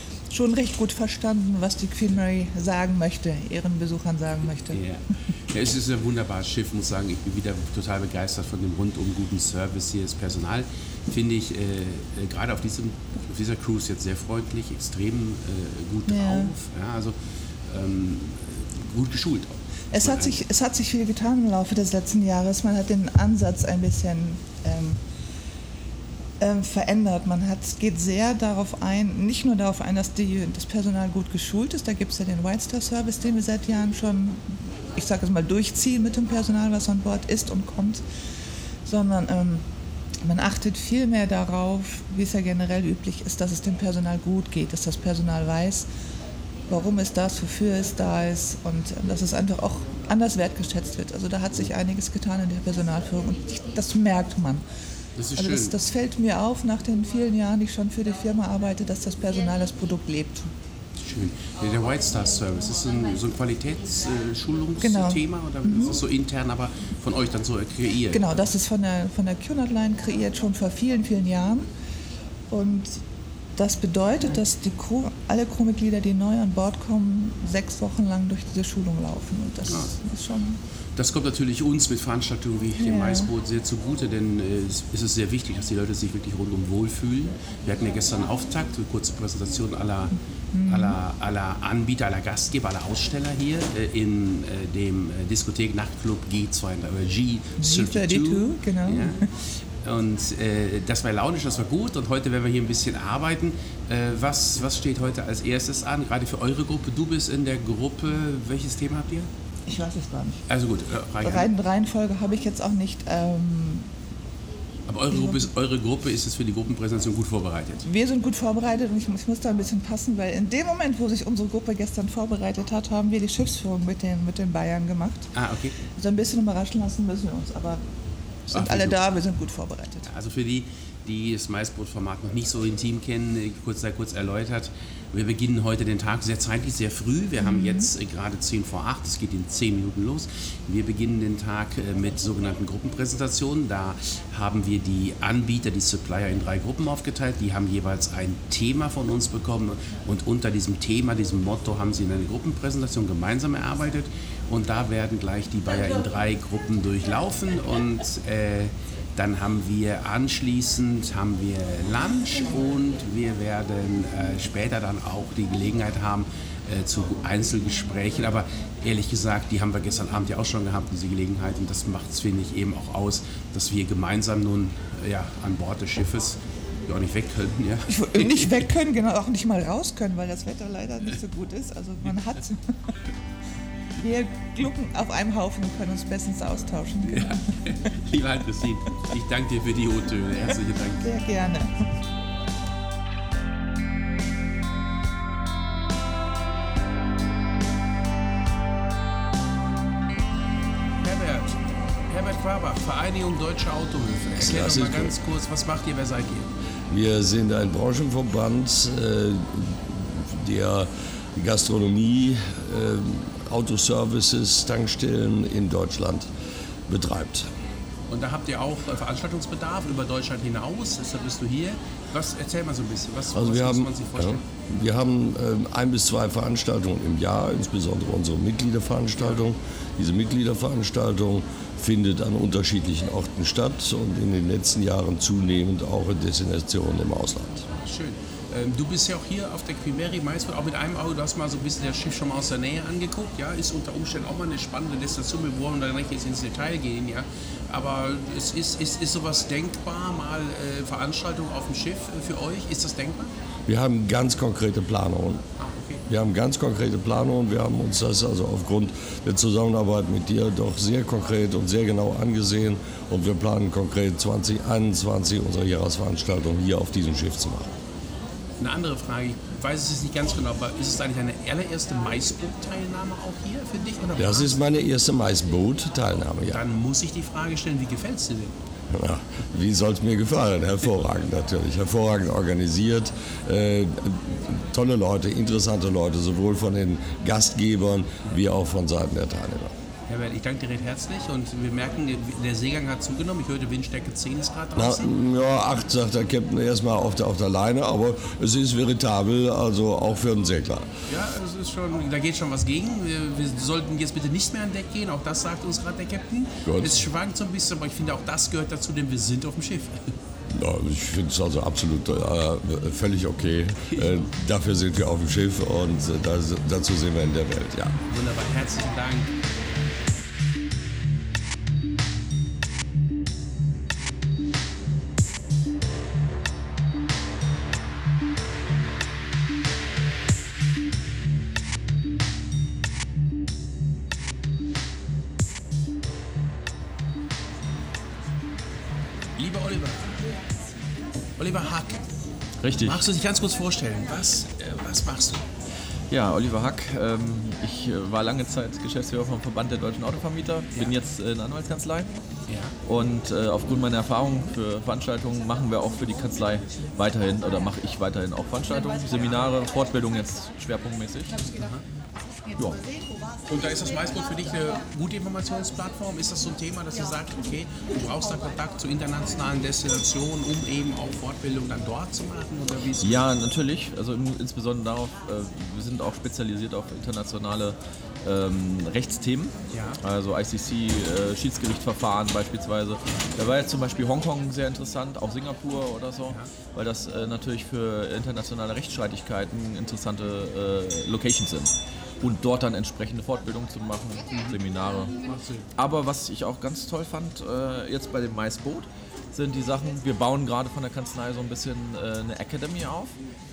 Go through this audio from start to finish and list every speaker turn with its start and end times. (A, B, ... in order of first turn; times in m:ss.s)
0:00.3-0:04.8 A
0:04.7-0:20.4 B
0:16.1-0:16.5 A
0:19.9-0:25.0 A
0:26.4-0:38.0 A
0:38.8-0:39.6 A
0:40.2-0:45.9 A
0:46.7-0:54.6 A
0:55.2-0:55.7 B
0:55.4-1:00.5 A
1:01.0-1:08.2 B
1:04.8-1:06.0 A
1:08.1-1:11.7 A
1:12.5-1:13.0 A
1:13.6-1:20.6 A
1:19.7-1:19.9 B
1:21.0-1:30.1 B
1:22.8-1:23.3 A
1:30.5-1:31.0 A
1:30.7-1:49.3 B
1:37.6-1:39.2 A
1:49.7-1:50.4 A
1:50.5-1:51.5 B
1:51.2-1:53.9 A
1:54.9-1:57.8 B
1:55.1-1:55.5 A
1:57.8-2:05.3 A
2:05.3-2:05.8 B
2:05.9-2:07.8 A
2:08.5-2:10.1 A
2:08.5-2:09.0 B
2:10.0-2:58.5 B
2:17.4-2:17.9 A
2:57.9-3:02.9 A
3:04.0-3:07.6 A
3:07.0-3:11.1 B
3:11.0-3:11.9 A
3:21.0-3:21.6 B
3:22.1-3:26.5 B
3:24.4-3:25.1 C
3:26.9-3:36.3 C
3:36.9-3:37.5 C
3:38.1-3:44.4 B
3:43.3-3:57.6 C
3:57.8-4:13.3 B
4:13.7-4:15.4 C
4:15.6-4:16.0 B
4:16.1-4:27.7 C
4:28.6-4:34.6 B
4:34.2-4:36.6 C
4:36.5-4:38.5 B
4:38.9-4:49.7 C
4:50.1-4:55.1 B
4:54.8-5:00.9 C
5:01.1-5:10.2 B
5:06.6-5:07.0 C
5:10.5-5:18.0 C
5:18.1-5:19.4 B
5:39.4-5:40.2 B
5:41.4-5:42.0 B
5:42.6-5:43.0 D
5:42.8-5:45.4 B
5:46.1-5:52.1 D
5:52.5-5:52.7 B
5:52.8-6:01.5 D
6:01.5-6:01.8 B
6:02.6-6:02.8 D
6:03.5-6:13.3 B
6:13.0-6:35.2 D
6:19.7-6:20.0 B
6:34.3-6:34.6 B
6:35.2-6:35.7 B
6:35.8-6:43.2 D